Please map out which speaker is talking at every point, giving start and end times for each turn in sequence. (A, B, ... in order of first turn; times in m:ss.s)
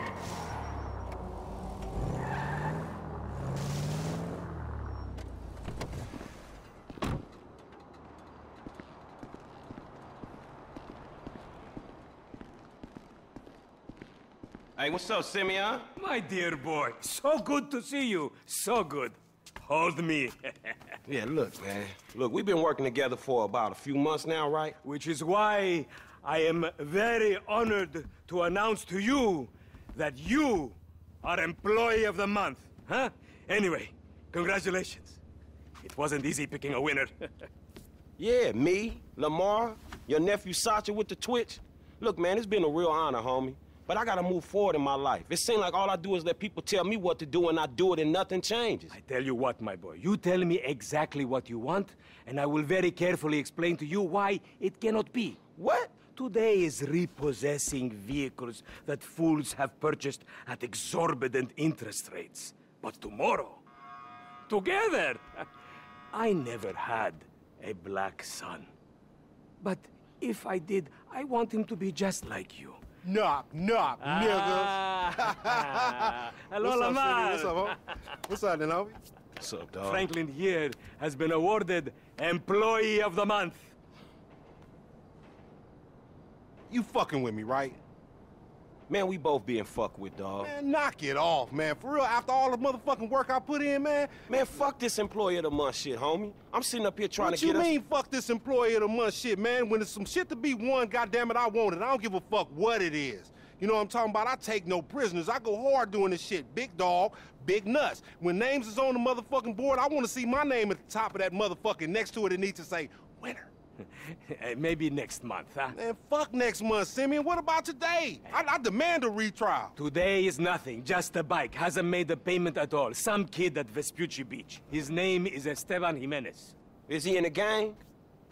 0:14.8-0:15.9 A
0:16.0-0:20.8 B
0:21.1-0:24.8 A
0:24.8-0:35.2 B
0:35.8-0:37.1 B
0:38.2-0:48.9 A
0:48.9-0:55.4 B
0:55.6-0:55.9 A
0:56.1-1:03.6 B
1:04.5-1:05.4 B
1:06.1-1:08.7 B
1:09.6-1:12.8 B
1:13.0-1:19.0 C
1:14.0-1:17.8 B
1:19.4-1:20.1 A
1:19.8-1:23.7 B
1:26.7-1:27.8 C
1:28.9-1:30.5 A
1:30.4-1:34.1 C
1:34.3-1:37.7 A
1:37.2-1:53.5 C
1:54.0-1:55.8 B
1:55.7-1:59.8 C
1:59.8-2:06.5 B
2:06.9-2:07.8 A